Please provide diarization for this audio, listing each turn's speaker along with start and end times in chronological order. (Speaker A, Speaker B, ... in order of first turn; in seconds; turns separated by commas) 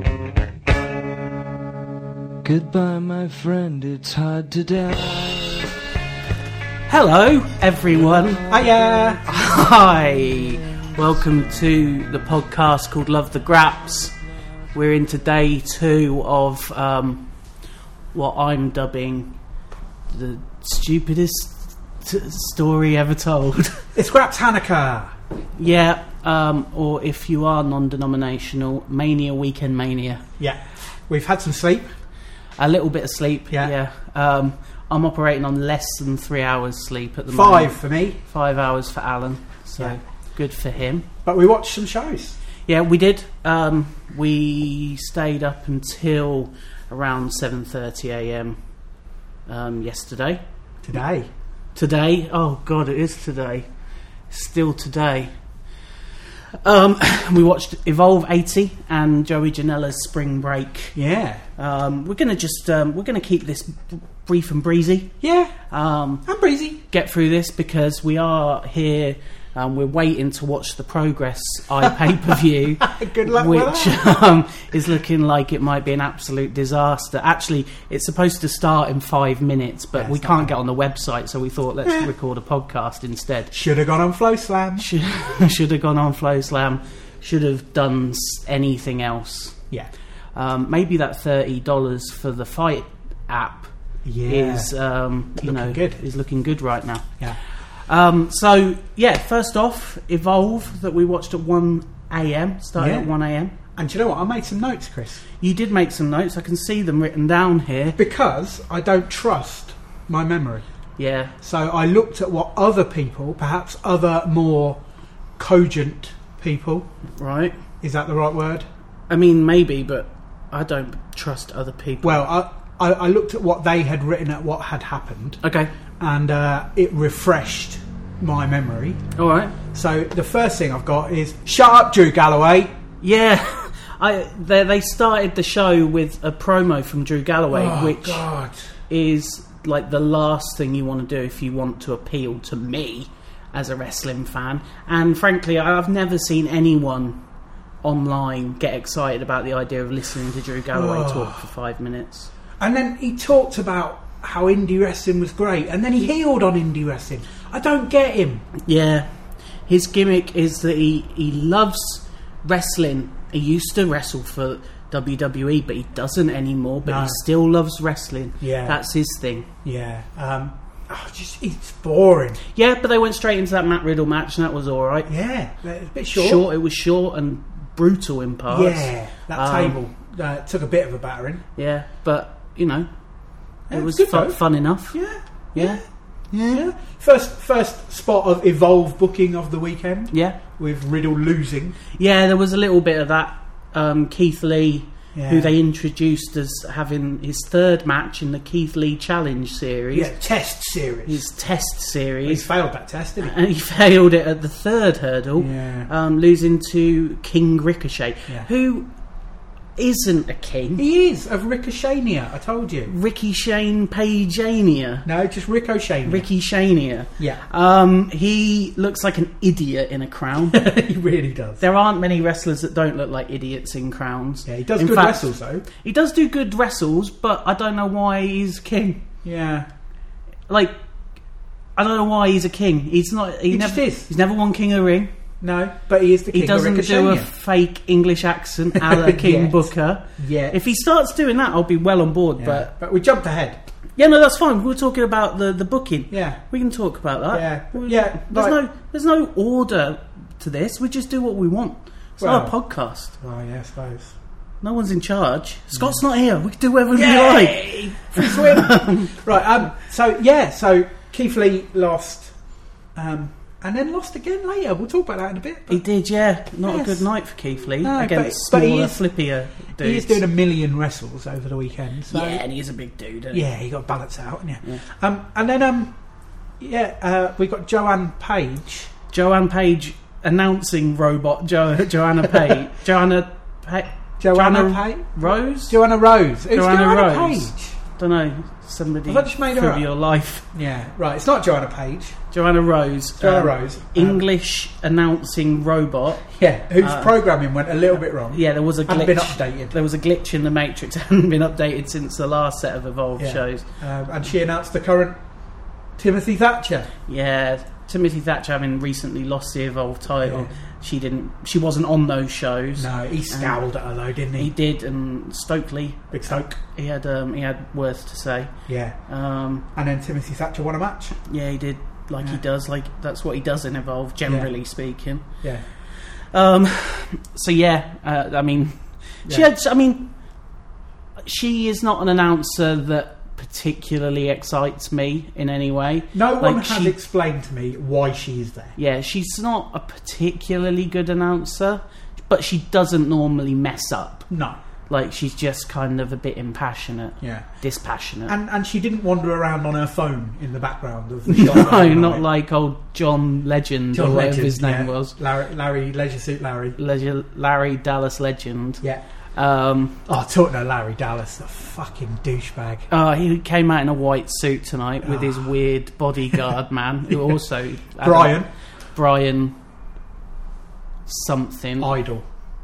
Speaker A: 2.4-5.7, Speaker B: 6.9-8.4, Speaker C: 8.4-9.2, Speaker B: 9.2-14.1, Speaker B: 14.7-17.3, Speaker B: 18.1-19.4, Speaker B: 20.1-23.9, Speaker C: 23.9-25.1, Speaker B: 25.6-30.2, Speaker C: 30.4-31.9, Speaker B: 32.6-41.1, Speaker C: 37.3-38.2, Speaker C: 41.2-42.4, Speaker B: 42.7-48.6, Speaker B: 49.5-50.4, Speaker C: 50.8-51.3, Speaker B: 51.7-53.7, Speaker B: 54.3-55.3, Speaker B: 56.6-61.0, Speaker C: 60.9-61.4, Speaker B: 61.6-65.1, Speaker C: 65.2-65.5, Speaker B: 65.7-66.2, Speaker C: 66.2-66.8, Speaker B: 66.9-83.5, Speaker C: 72.8-74.2, Speaker C: 79.9-80.5, Speaker C: 81.8-82.1, Speaker C: 83.5-84.9, Speaker B: 84.8-89.6, Speaker B: 90.3-93.7, Speaker C: 94.0-94.7, Speaker B: 94.3-103.5, Speaker C: 95.4-96.0, Speaker C: 102.8-103.1, Speaker C: 103.8-105.2, Speaker B: 105.4-108.0, Speaker C: 108.0-110.7, Speaker B: 111.0-111.3, Speaker C: 111.4-114.8, Speaker C: 115.4-116.9, Speaker B: 117.1-117.5, Speaker C: 117.8-118.7, Speaker B: 119.1-122.2, Speaker C: 122.0-125.4, Speaker B: 125.4-125.7, Speaker C: 126.0-129.0, Speaker B: 129.2-129.6, Speaker C: 129.7-132.7, Speaker B: 133.0-138.2, Speaker C: 137.5-138.7, Speaker B: 138.9-147.2, Speaker B: 147.8-152.3, Speaker C: 150.7-151.4, Speaker C: 152.6-158.5, Speaker B: 158.6-159.1, Speaker B: 159.7-169.5, Speaker C: 166.8-167.2, Speaker C: 168.4-168.8, Speaker C: 169.6-172.4, Speaker B: 172.5-175.1, Speaker C: 175.1-176.4, Speaker B: 176.1-179.8, Speaker C: 178.5-181.4, Speaker B: 181.6-182.9, Speaker B: 183.7-185.0, Speaker C: 183.7-184.4, Speaker C: 184.9-191.8, Speaker B: 185.5-185.8, Speaker B: 186.3-186.6, Speaker B: 190.1-190.4, Speaker B: 191.9-200.1, Speaker C: 195.1-195.5, Speaker C: 199.9-201.2, Speaker B: 201.1-202.4, Speaker C: 202.2-203.3, Speaker B: 203.2-208.9, Speaker C: 205.4-205.9, Speaker B: 209.8-210.8, Speaker C: 210.8-212.9, Speaker B: 212.9-215.1, Speaker C: 215.0-216.3, Speaker B: 216.0-220.6, Speaker C: 220.4-221.6, Speaker B: 221.6-229.1, Speaker C: 224.4-225.6, Speaker C: 229.2-229.7, Speaker B: 230.5-230.7, Speaker B: 231.8-235.1, Speaker C: 233.5-234.1, Speaker C: 235.4-237.3, Speaker B: 236.3-242.7, Speaker C: 238.7-240.6, Speaker C: 242.4-243.6, Speaker B: 244.0-253.1, Speaker C: 246.1-246.4, Speaker C: 247.3-248.6, Speaker C: 252.2-252.5, Speaker C: 253.2-254.1, Speaker B: 254.6-259.1, Speaker C: 255.7-256.0, Speaker C: 256.9-262.3, Speaker C: 262.9-265.8, Speaker B: 265.7-270.2, Speaker C: 266.6-267.1, Speaker C: 267.8-269.1, Speaker C: 269.8-272.4, Speaker B: 272.1-273.4, Speaker C: 273.3-275.9, Speaker C: 276.6-278.9, Speaker B: 279.1-285.8, Speaker C: 284.2-287.8, Speaker B: 286.5-290.4, Speaker C: 289.1-289.9, Speaker C: 290.5-292.2, Speaker B: 292.3-297.1, Speaker C: 293.2-294.2, Speaker C: 296.3-299.8, Speaker B: 298.3-303.6, Speaker C: 303.2-305.2, Speaker C: 306.0-306.9, Speaker B: 307.1-313.6, Speaker C: 310.2-310.5, Speaker C: 312.8-314.5, Speaker B: 314.4-318.5, Speaker C: 316.1-316.6, Speaker C: 318.7-319.0, Speaker B: 319.1-319.6, Speaker C: 319.7-321.2, Speaker B: 321.2-330.1, Speaker B: 331.2-336.9, Speaker C: 336.1-338.7, Speaker B: 338.8-344.3, Speaker C: 344.3-344.6, Speaker B: 344.9-348.3, Speaker C: 347.2-347.5, Speaker C: 348.3-352.2, Speaker B: 351.3-355.1, Speaker C: 353.9-356.8, Speaker B: 356.8-360.0, Speaker C: 360.1-362.9, Speaker B: 362.9-369.6, Speaker C: 365.0-365.5, Speaker C: 368.0-368.5, Speaker B: 371.1-371.9, Speaker C: 371.8-372.2